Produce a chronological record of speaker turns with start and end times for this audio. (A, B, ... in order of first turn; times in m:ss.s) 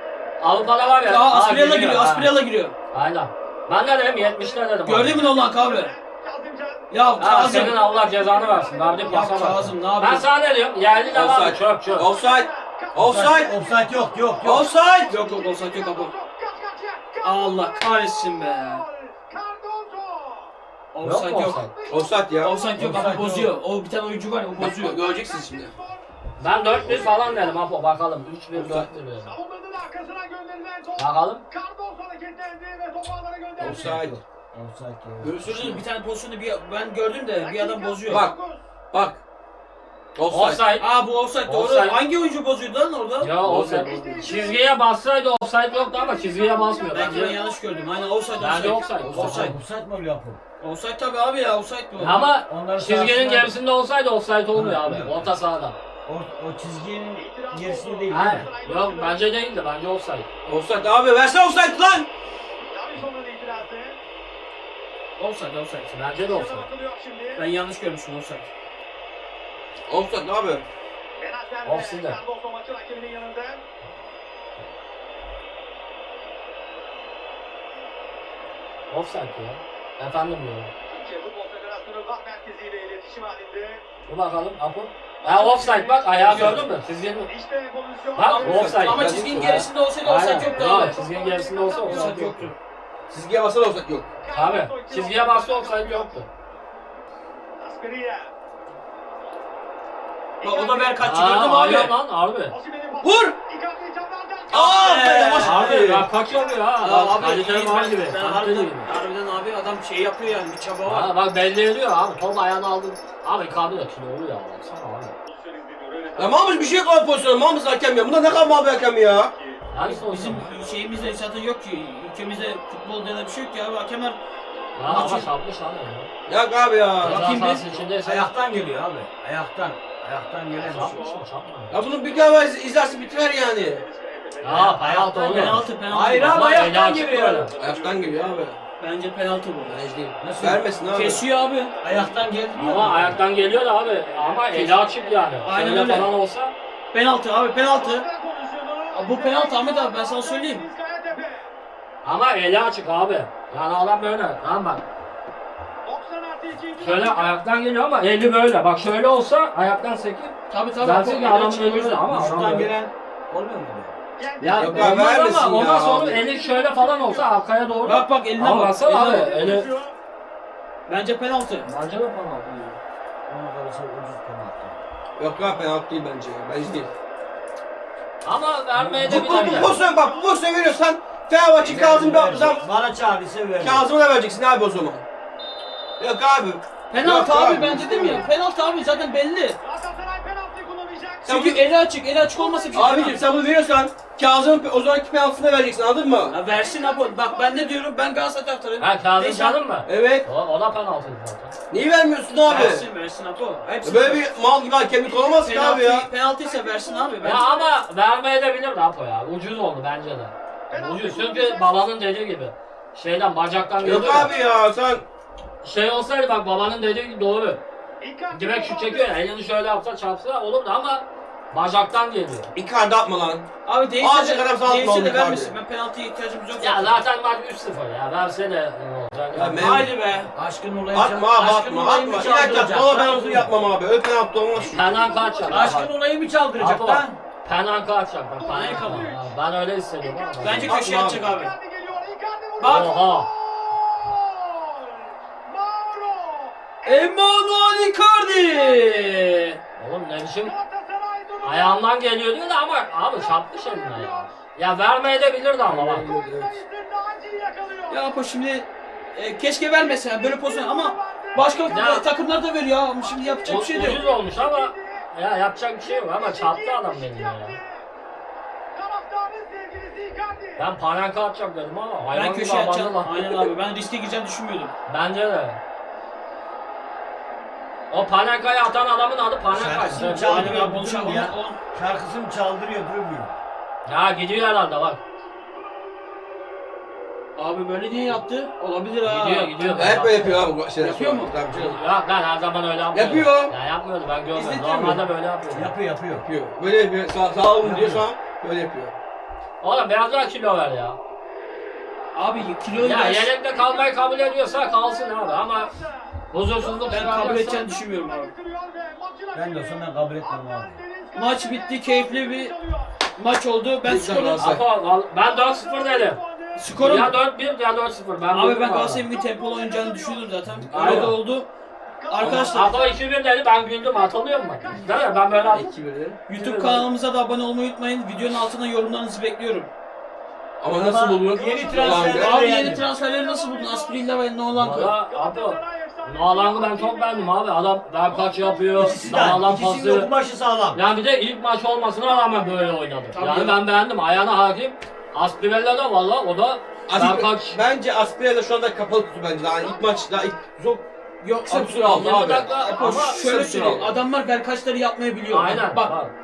0:00.4-0:02.4 A
0:01.0-0:02.7 B
0:02.9-0:05.2 A
0:04.8-0:05.9 B
0:05.1-0:09.4 C
0:06.9-0:07.8 B
0:07.2-0:12.1 A
0:09.0-0:10.2 B
0:10.9-0:11.4 C
0:11.1-0:13.6 D
0:12.0-0:20.5 C
0:12.9-0:14.6 E
0:14.4-0:15.1 D
0:15.0-0:16.1 B
0:17.2-0:18.8 B
0:20.9-0:21.6 B
0:21.0-0:21.7 A
0:21.4-0:23.1 C
0:21.9-0:22.5 D
0:22.4-0:25.0 B
0:22.7-0:23.5 E
0:24.6-0:25.7 D
0:24.9-0:27.6 C
0:26.4-0:29.3 A
0:26.8-0:27.2 D
0:28.5-0:28.9 D
0:29.2-0:33.9 C
0:31.0-0:31.4 A
0:33.6-0:34.2 D
0:33.6-0:35.4 E
0:35.2-0:35.8 D
0:35.4-0:38.2 B
0:37.4-0:38.6 C
0:38.0-0:38.3 D
0:38.9-0:39.2 D
0:40.2-0:40.6 D
0:40.3-0:40.9 A
0:40.8-0:43.3 B
0:41.4-0:42.0 A
0:43.2-0:47.4 A
0:43.2-0:44.4 D
0:43.6-0:44.6 C
0:45.7-0:49.0 C
0:46.9-0:49.5 B
0:48.4-0:49.5 A
0:49.0-0:49.4 D
0:49.1-0:50.4 E
0:50.6-0:52.3 B
0:52.0-0:55.8 A
0:52.3-0:53.6 E
0:54.5-0:55.3 E
0:56.0-0:58.5 E
0:57.2-0:59.3 C
0:58.1-1:00.3 A
1:00.4-1:02.1 D
1:02.7-1:04.0 C
1:05.2-1:05.9 B
1:05.9-1:06.7 A
1:06.2-1:07.4 C
1:07.4-1:08.5 B
1:09.9-1:10.6 D
1:11.2-1:13.6 C
1:11.6-1:12.2 A
1:18.9-1:20.7 A
1:20.9-1:23.8 C
1:24.1-1:27.3 A
1:25.2-1:26.5 C
1:26.1-1:26.7 B
1:27.3-1:29.0 C
1:28.2-1:32.5 A
1:28.3-1:32.5 B
1:28.8-1:29.7 D
1:30.3-1:32.2 C
1:33.1-1:34.1 D
1:34.2-1:36.2 C
1:34.3-1:36.3 A
1:37.6-1:38.3 C
1:40.4-1:41.1 C
1:40.4-1:42.0 B
1:41.0-1:42.5 A
1:42.5-1:45.0 C
1:43.0-1:43.4 D
1:44.5-1:45.9 B
1:44.6-1:46.1 D
1:45.4-1:48.9 A
1:46.8-1:51.1 B
1:50.8-1:55.2 A
1:55.3-1:56.8 C
1:56.2-1:59.3 D
1:58.5-1:59.4 C
1:59.7-2:00.5 A
1:59.8-2:04.2 B
2:04.8-2:06.1 A
2:04.8-2:05.3 B
2:06.2-2:07.3 D
2:07.0-2:08.3 A
2:07.0-2:07.8 B
2:08.0-2:11.0 E
2:10.5-2:11.2 C
2:10.6-2:11.7 A
2:11.7-2:13.8 D
2:12.1-2:14.8 C
2:14.4-2:17.1 E
2:14.4-2:17.5 A
2:15.1-2:17.5 B
2:17.4-2:18.5 C
2:17.5-2:18.6 D
2:18.8-2:19.8 B
2:19.6-2:21.2 D
2:20.2-2:20.6 E
2:20.9-2:21.7 B
2:21.8-2:22.3 C
2:21.8-2:23.2 E
2:22.6-2:26.5 A
2:23.8-2:25.7 C
2:24.5-2:24.8 B
2:25.4-2:26.1 B
2:26.9-2:28.0 B
2:27.8-2:31.5 C
2:28.9-2:30.6 B
2:32.0-2:34.8 A
2:35.8-2:37.4 C
2:36.8-2:42.7 A
2:40.5-2:42.0 B
2:42.1-2:43.9 E
2:44.2-2:45.2 C
2:44.4-2:49.7 A
2:44.5-2:46.2 D
2:45.7-2:47.4 C
2:47.8-2:49.5 B
2:49.1-2:49.9 C
2:50.9-2:51.7 B
2:51.6-2:52.8 A
2:53.3-2:54.8 E
2:55.2-2:56.9 D
2:58.2-2:59.8 A
2:58.9-3:02.6 D
2:59.0-3:00.4 C
3:01.6-3:03.9 E
3:01.8-3:02.8 C
3:03.6-3:05.0 D
3:06.0-3:08.3 D
3:06.9-3:09.6 B
3:07.5-3:11.4 C
3:11.2-3:13.2 B
3:11.2-3:11.6 D
3:12.3-3:13.2 C
3:12.7-3:16.4 D
3:16.3-3:19.6 B
3:16.4-3:17.8 C
3:18.8-3:21.5 A
3:19.8-3:20.3 D
3:21.7-3:22.8 D
3:22.4-3:24.3 B
3:23.8-3:26.1 D
3:25.0-3:27.4 B
3:26.4-3:27.7 C
3:27.2-3:34.3 A
3:30.7-3:31.8 C
3:33.8-3:35.0 D
3:33.8-3:34.5 C
3:35.6-3:37.6 A
3:38.0-3:39.2 C
3:38.3-3:42.5 A
3:42.5-3:43.4 D
3:43.6-3:47.0 B
3:44.0-3:45.5 D
3:46.6-3:49.8 A
3:49.3-3:49.9 D
3:49.5-3:50.3 B
3:50.3-3:53.5 E
3:50.9-3:55.2 D
3:51.3-3:52.7 B
3:54.6-3:55.9 A
3:54.7-3:55.8 C
3:55.4-3:57.2 E
3:56.6-4:00.8 A
3:58.4-3:59.3 C
3:58.5-3:59.1 B
4:00.0-4:07.1 C
4:00.4-4:01.5 B
4:00.7-4:01.2 D
4:02.6-4:02.9 B
4:02.6-4:03.3 A
4:06.8-4:09.6 B
4:08.0-4:08.9 C
4:09.8-4:10.5 A
4:10.4-4:11.8 C
4:11.4-4:16.1 A
4:13.2-4:14.3 C
4:15.6-4:16.6 D
4:16.0-4:18.0 C
4:17.9-4:24.0 B
4:19.8-4:22.0 C
4:21.7-4:22.1 A
4:23.0-4:25.1 C
4:23.4-4:27.6 A
4:25.8-4:27.9 C
4:28.7-4:30.7 C
4:30.6-4:33.5 A
4:32.1-4:34.7 B
4:34.8-4:35.6 A
4:37.9-4:40.6 A
4:39.5-4:43.3 E
4:40.2-4:41.6 B
4:43.8-4:45.0 A
4:47.4-4:49.8 B
4:49.0-4:50.5 A
4:49.7-4:51.8 D
4:50.8-4:51.4 B
4:51.5-4:55.7 A
4:52.9-4:53.5 D
4:54.3-4:55.0 B
4:55.5-4:56.2 E
4:56.2-4:58.9 D
4:57.6-4:58.0 E
4:59.6-5:01.0 A
5:02.1-5:03.3 B
5:02.8-5:05.7 A
5:03.4-5:13.0 C
5:06.3-5:07.6 A
5:06.9-5:08.3 B
5:09.3-5:10.8 E
5:11.1-5:12.5 B
5:13.1-5:14.6 B
5:13.8-5:14.6 D
5:14.4-5:16.2 A
5:15.2-5:16.7 C
5:16.6-5:17.2 B
5:16.7-5:19.0 A
5:18.3-5:21.5 B
5:19.1-5:20.3 C
5:20.7-5:21.2 A
5:20.7-5:21.1 D
5:22.0-5:23.0 C
5:22.1-5:22.8 B
5:22.2-5:22.6 D
5:22.3-5:25.7 A
5:23.8-5:25.7 C
5:25.5-5:26.2 D
5:26.2-5:29.7 B
5:26.3-5:26.9 A
5:30.6-5:32.4 D
5:30.7-5:32.8 E
5:31.3-5:34.2 C
5:32.1-5:34.9 B
5:34.5-5:40.1 A
5:35.0-5:37.4 C
5:38.1-5:39.2 C
5:38.7-5:40.8 E
5:40.7-5:47.6 A
5:42.1-5:42.8 C
5:43.1-5:43.6 B
5:46.9-5:50.8 D
5:49.4-5:50.4 C
5:51.2-5:55.9 B
5:51.4-5:52.5 D
5:51.9-5:53.2 A
5:52.4-5:53.2 C
5:53.1-5:54.0 D
5:55.3-5:56.1 A